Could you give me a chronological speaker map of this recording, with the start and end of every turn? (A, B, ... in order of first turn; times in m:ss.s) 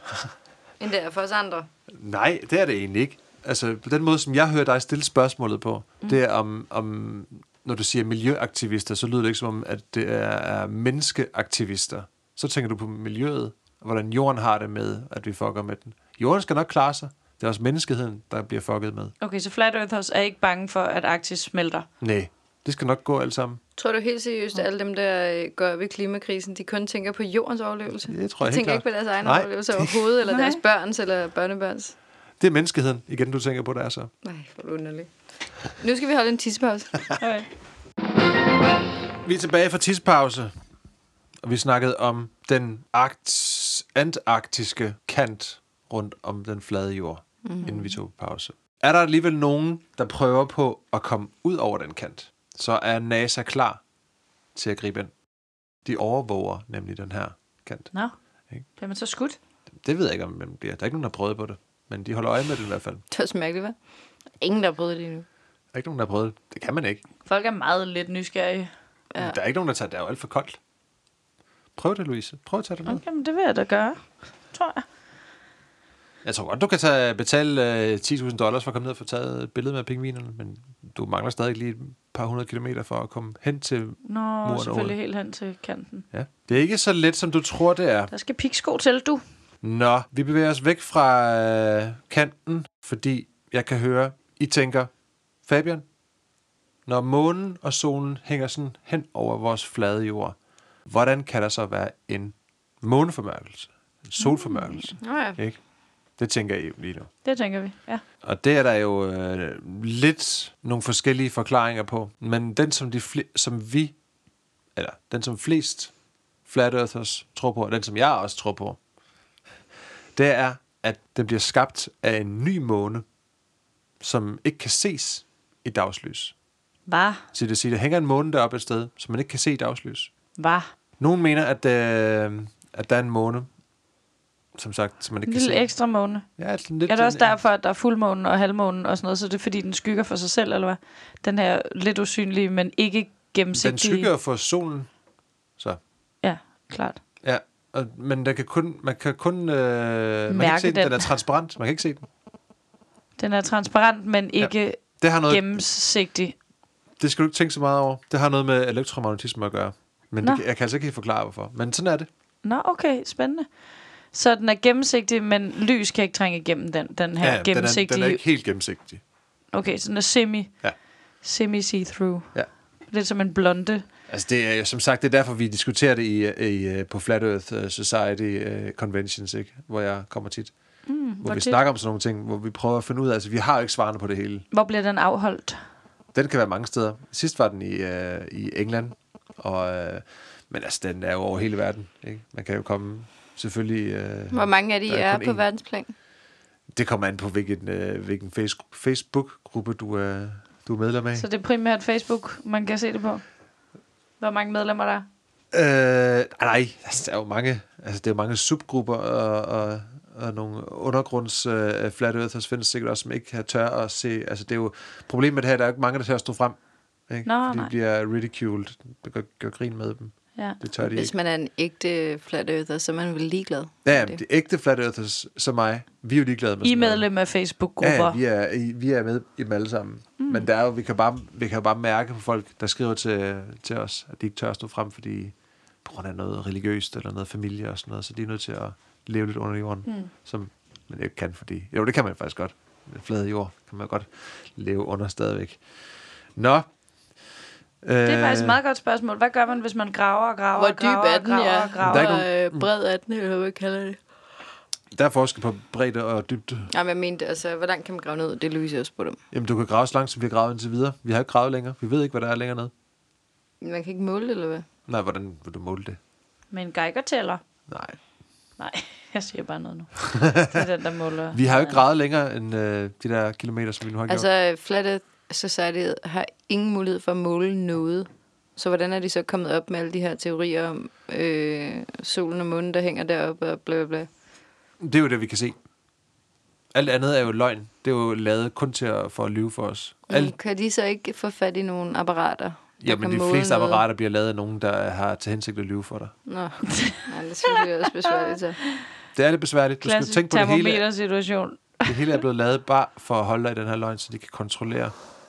0:00.8-0:01.7 A
0:01.9-0:19.1 B
0:19.2-0:21.9 C
0:22.0-0:23.6 B
0:23.8-0:31.9 A
0:28.1-0:30.1 B
0:30.2-0:30.6 C
0:32.4-0:34.1 B
0:34.2-0:35.1 A
0:35.8-0:37.0 A
0:37.2-0:37.5 C
0:39.2-0:40.5 B
0:41.4-0:53.8 B
0:47.4-0:47.9 A
0:54.5-0:55.1 B
0:55.8-0:57.9 B
0:58.8-0:59.4 C
0:59.8-1:03.0 B
1:03.1-1:03.7 A
1:04.4-1:05.2 A
1:05.7-1:07.0 B
1:07.2-1:08.7 C
1:09.2-1:10.6 B
1:11.8-1:13.0 B
1:12.8-1:14.8 C
1:16.2-1:24.9 B
1:24.0-1:26.0 C
1:26.1-1:28.1 B
1:28.1-1:29.2 C
1:29.6-1:34.9 B
1:35.4-1:35.8 B
1:36.8-1:45.6 B
1:44.2-1:44.8 C
1:45.0-1:45.4 A
1:46.2-1:47.1 B
1:47.2-1:48.0 C
1:48.2-1:53.9 B
1:54.8-1:55.9 B
1:56.4-1:58.8 B
2:00.2-2:03.0 B
2:04.0-2:06.3 B
2:06.9-2:07.2 C
2:07.3-2:10.1 B
2:10.4-2:10.7 C
2:11.0-2:13.5 B
2:14.6-2:15.7 B
2:15.3-2:16.3 C
2:16.4-2:17.3 B
2:16.9-2:24.1 C
2:23.5-2:24.9 B
2:26.2-2:27.0 C
2:27.2-2:32.1 B
2:30.3-2:31.1 C
2:33.2-2:36.3 C
2:34.4-2:35.4 B
2:37.0-2:42.1 B
2:42.4-2:43.5 C
2:44.1-2:48.2 C
2:47.2-2:49.0 B
2:49.5-2:50.5 C
2:51.2-2:52.3 C
2:52.9-2:53.8 C
2:54.1-3:00.5 B
3:00.9-3:01.6 C
3:01.2-3:04.4 B
3:04.5-3:05.6 C
3:06.1-3:15.4 B
3:14.3-3:15.9 A
3:16.7-3:21.3 B
3:21.1-3:23.2 C
3:24.2-3:25.1 C
3:25.5-3:36.6 B
3:37.1-3:41.1 B
3:37.2-3:37.7 C
3:40.8-3:44.2 A
3:43.8-3:47.0 B
3:46.6-3:48.2 C
3:47.8-3:55.3 B
3:50.2-3:50.4 C
3:55.8-4:05.6 B
3:59.8-4:00.1 C
4:06.4-4:06.6 B
4:07.8-4:08.6 B
4:08.0-4:12.2 C
4:10.6-4:14.0 A
4:11.8-4:12.6 B
4:14.9-4:16.7 B
4:16.7-4:19.2 A
4:19.3-4:22.7 B
4:23.6-4:24.6 A
4:24.9-4:26.0 B
4:26.5-4:27.4 C
4:27.7-4:28.0 B
4:28.6-4:31.8 C
4:30.0-4:30.6 B
4:31.3-4:34.2 B
4:34.1-4:44.1 A
4:44.8-4:45.5 B
4:46.7-4:50.3 B
4:50.1-4:53.8 A
4:52.8-4:56.1 B
4:56.2-4:58.6 A
4:56.7-4:58.4 C
4:59.1-5:00.8 B
4:59.8-5:02.2 C
5:01.8-5:04.9 B